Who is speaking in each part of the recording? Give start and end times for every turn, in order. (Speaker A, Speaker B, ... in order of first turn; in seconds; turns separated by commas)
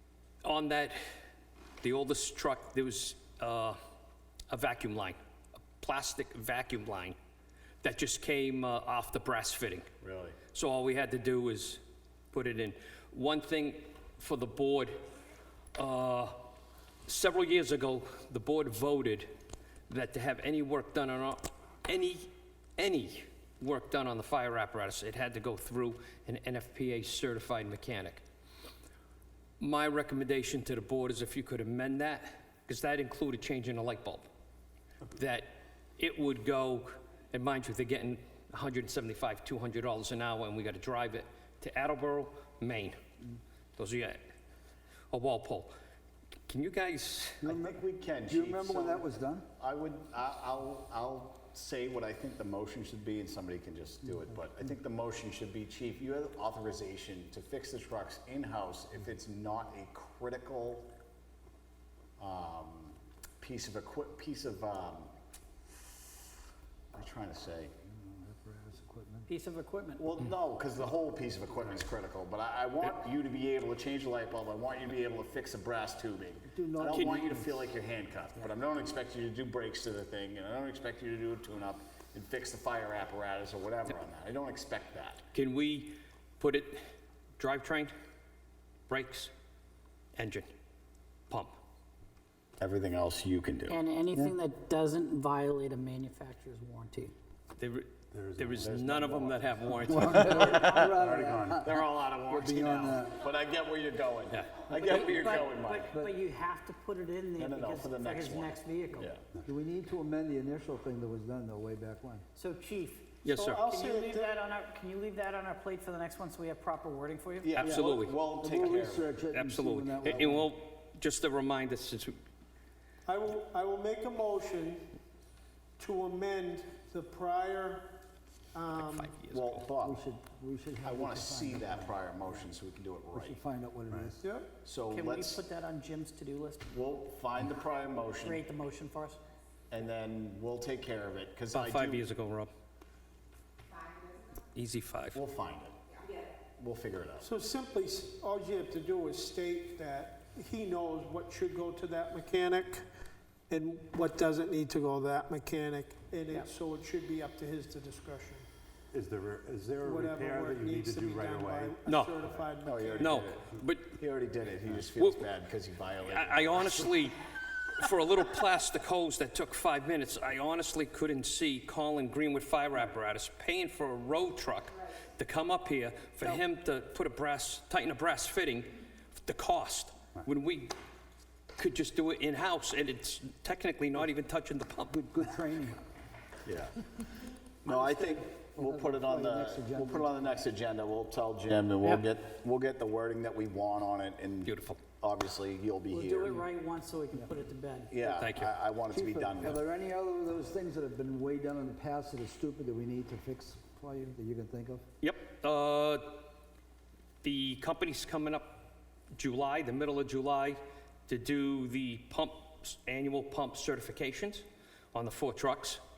Speaker A: 0.4-1.0, Speaker A: 1.8-3.8, Speaker A: 4.5-5.2, Speaker A: 5.8-7.2, Speaker A: 7.8-9.8, Speaker B: 10.0-10.4, Speaker A: 10.5-11.8, Speaker A: 12.3-15.0, Speaker A: 15.7-16.4, Speaker A: 17.1-19.3, Speaker A: 19.9-28.2, Speaker A: 29.6-34.3, Speaker A: 35.1-43.0, Speaker A: 43.8-44.2, Speaker A: 45.1-45.7, Speaker A: 46.5-47.6, Speaker C: 47.4-49.5, Speaker B: 47.6-60.9, Speaker B: 62.2-65.1, Speaker B: 66.9-67.7, Speaker C: 68.0-69.3, Speaker D: 69.3-70.0, Speaker B: 70.0-85.2, Speaker C: 76.5-77.7, Speaker A: 76.9-77.2, Speaker A: 85.3-86.8, Speaker A: 87.4-87.9, Speaker A: 88.9-89.3, Speaker A: 90.2-90.5, Speaker A: 91.3-91.5, Speaker B: 92.6-93.8, Speaker D: 93.7-97.1, Speaker A: 97.6-100.6, Speaker E: 98.1-101.5, Speaker C: 99.8-103.2, Speaker B: 100.0-106.0, Speaker D: 100.2-100.6, Speaker A: 104.3-105.2, Speaker D: 104.7-109.1, Speaker B: 107.3-109.2, Speaker C: 109.4-112.2, Speaker D: 112.3-117.5, Speaker A: 113.2-113.6, Speaker F: 113.5-114.4, Speaker B: 117.4-119.1, Speaker A: 117.5-118.2, Speaker C: 117.6-120.5, Speaker A: 119.3-122.2, Speaker B: 120.0-120.4, Speaker F: 123.0-124.9, Speaker F: 125.8-128.0, Speaker F: 128.5-129.2, Speaker A: 128.7-129.6, Speaker B: 129.3-130.0, Speaker C: 129.8-132.5, Speaker B: 130.8-133.4, Speaker C: 133.1-134.2, Speaker F: 134.2-134.5, Speaker B: 134.6-135.4, Speaker D: 134.9-136.7, Speaker B: 136.7-138.4, Speaker D: 138.2-139.2, Speaker B: 139.7-142.0, Speaker A: 141.5-142.5, Speaker A: 144.5-145.2, Speaker B: 145.1-145.8, Speaker B: 146.4-147.3, Speaker F: 147.2-152.8, Speaker F: 153.5-158.4, Speaker E: 158.9-162.6, Speaker F: 159.8-163.2, Speaker A: 161.8-162.1, Speaker B: 162.6-163.4, Speaker A: 163.0-164.0, Speaker B: 164.0-166.9, Speaker A: 165.0-165.2, Speaker A: 166.1-167.2, Speaker A: 167.8-180.7, Speaker A: 181.6-185.0, Speaker C: 184.9-185.8, Speaker B: 186.4-187.0, Speaker B: 187.6-196.4, Speaker C: 187.7-190.4, Speaker A: 194.4-194.8, Speaker D: 195.9-197.9, Speaker B: 197.9-199.6, Speaker A: 198.1-198.5, Speaker C: 198.9-204.8, Speaker A: 205.0-206.3, Speaker A: 207.2-208.6, Speaker A: 209.1-215.8